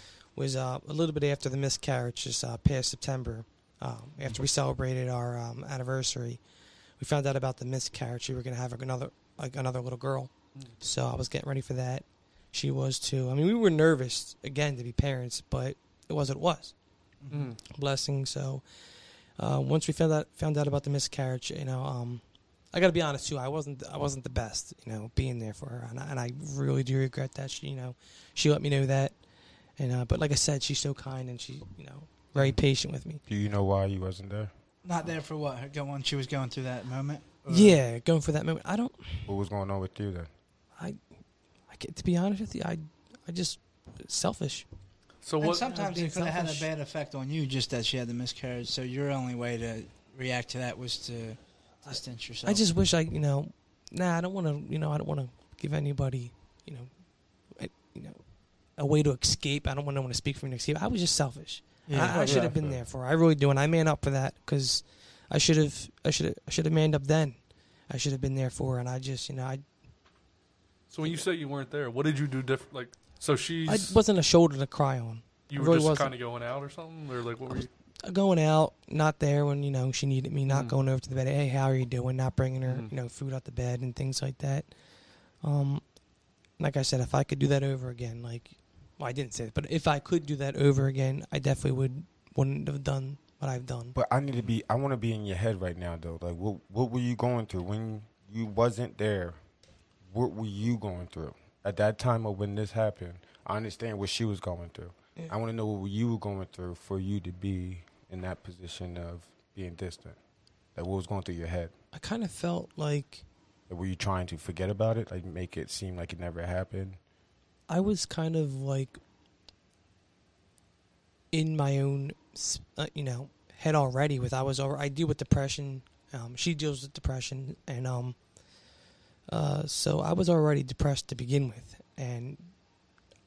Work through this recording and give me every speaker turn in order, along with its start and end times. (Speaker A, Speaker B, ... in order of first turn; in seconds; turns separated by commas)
Speaker A: 0.3-6.4, Speaker A: 7.0-16.7, Speaker B: 17.2-17.5, Speaker C: 17.3-17.6, Speaker A: 17.7-18.6, Speaker A: 19.4-29.1, Speaker A: 29.8-33.2, Speaker D: 33.3-34.5, Speaker B: 34.8-37.8, Speaker A: 37.5-39.3, Speaker D: 39.3-40.3, Speaker A: 41.7-44.6, Speaker C: 45.2-45.6, Speaker B: 45.4-52.6, Speaker A: 45.6-46.7, Speaker A: 51.8-56.9, Speaker A: 57.5-58.2, Speaker A: 58.8-67.4, Speaker B: 61.9-62.5, Speaker D: 62.3-62.8, Speaker A: 67.9-69.6, Speaker C: 70.9-74.0, Speaker A: 73.7-76.1, Speaker C: 75.5-77.7, Speaker A: 78.0-84.7, Speaker C: 80.5-80.7, Speaker A: 85.4-85.8, Speaker A: 86.6-94.0, Speaker D: 93.9-99.4, Speaker D: 100.0-110.2, Speaker D: 110.8-111.7, Speaker A: 111.9-113.2, Speaker D: 113.7-117.0, Speaker A: 117.7-119.0, Speaker A: 121.3-128.2, Speaker A: 129.3-132.5